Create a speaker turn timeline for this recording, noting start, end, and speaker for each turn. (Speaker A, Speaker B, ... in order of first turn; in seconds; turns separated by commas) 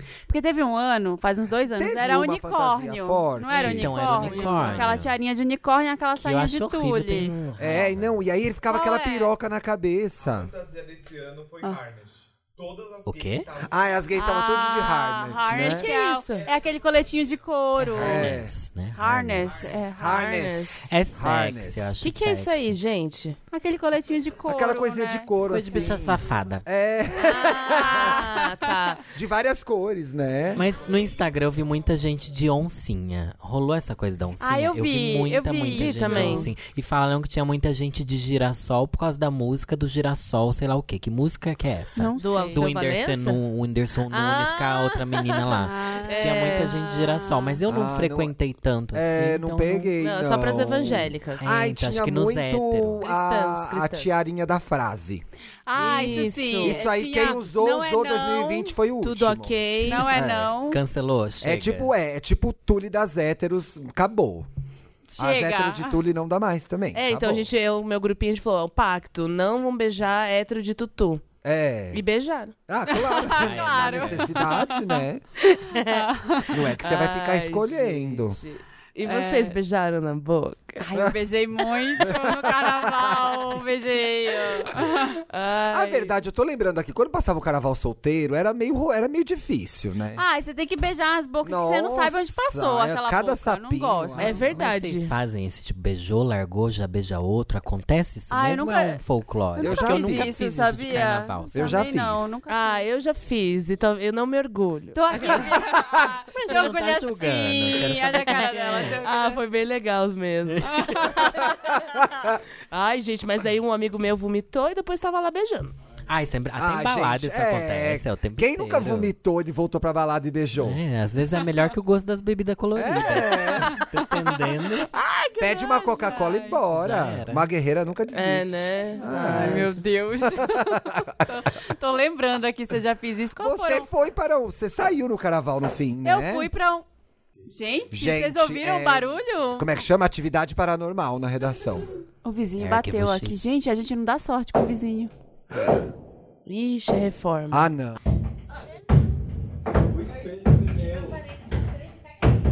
Speaker A: 0.3-7.3, Speaker B: 1.7-4.8, Speaker C: 3.5-5.2, Speaker C: 6.2-8.1, Speaker B: 7.6-10.5, Speaker A: 8.7-9.3, Speaker D: 10.2-14.1, Speaker C: 13.0-13.5, Speaker B: 13.6-15.9, Speaker A: 14.1-18.4, Speaker E: 15.5-16.5, Speaker C: 17.8-19.7, Speaker B: 17.9-18.5, Speaker A: 18.9-20.3, Speaker B: 19.9-21.9, Speaker E: 20.0-20.9, Speaker C: 20.9-22.8, Speaker E: 22.0-23.4, Speaker A: 23.5-25.3, Speaker B: 24.5-28.2, Speaker C: 25.4-26.6, Speaker A: 27.2-28.7, Speaker E: 27.2-29.0, Speaker B: 29.1-30.7, Speaker C: 30.5-49.9, Speaker A: 34.4-36.5, Speaker E: 35.7-36.5, Speaker A: 41.9-42.6, Speaker E: 42.2-43.4, Speaker E: 44.1-47.0, Speaker A: 45.5-47.5, Speaker B: 47.7-48.3, Speaker B: 48.9-55.2, Speaker E: 50.0-51.5, Speaker C: 51.4-53.0, Speaker E: 53.0-54.1, Speaker A: 55.6-58.8, Speaker E: 55.7-57.2, Speaker B: 56.0-60.5, Speaker E: 59.0-60.1, Speaker A: 59.8-60.8, Speaker C: 60.7-61.9, Speaker B: 61.4-64.5, Speaker A: 65.1-66.0, Speaker B: 65.2-67.5, Speaker E: 66.9-71.2, Speaker B: 71.4-72.0, Speaker E: 71.9-72.5, Speaker B: 72.7-75.2, Speaker A: 72.9-74.8, Speaker C: 73.3-74.3, Speaker E: 75.4-76.1, Speaker A: 75.7-76.5, Speaker B: 76.5-78.4, Speaker E: 76.8-80.8, Speaker A: 79.0-79.5, Speaker A: 80.8-85.2, Speaker B: 82.0-83.3, Speaker E: 85.3-86.1, Speaker B: 85.7-90.2, Speaker A: 90.2-94.4, Speaker B: 91.4-94.5, Speaker E: 94.2-95.1, Speaker C: 94.3-101.8, Speaker A: 98.3-99.0, Speaker A: 99.5-102.8, Speaker B: 99.6-100.3, Speaker B: 101.5-102.4, Speaker E: 102.5-105.5, Speaker A: 104.9-109.4, Speaker B: 105.8-106.1, Speaker C: 106.3-109.0, Speaker E: 109.0-111.3, Speaker C: 110.5-110.7, Speaker A: 110.7-111.7, Speaker B: 111.9-112.4, Speaker E: 112.7-115.7, Speaker C: 116.1-119.1, Speaker B: 116.6-120.8, Speaker C: 120.6-124.9, Speaker B: 122.7-123.8, Speaker E: 124.9-125.4, Speaker B: 125.4-131.2, Speaker A: 125.4-126.6, Speaker C: 126.7-127.5, Speaker E: 128.1-129.7, Speaker A: 129.1-133.9, Speaker B: 133.4-136.5, Speaker A: 136.0-136.8, Speaker A: 137.5-139.7, Speaker B: 137.9-141.9, Speaker A: 142.2-145.1, Speaker C: 142.6-143.4, Speaker E: 146.4-147.7, Speaker B: 147.5-148.0, Speaker D: 149.9-151.2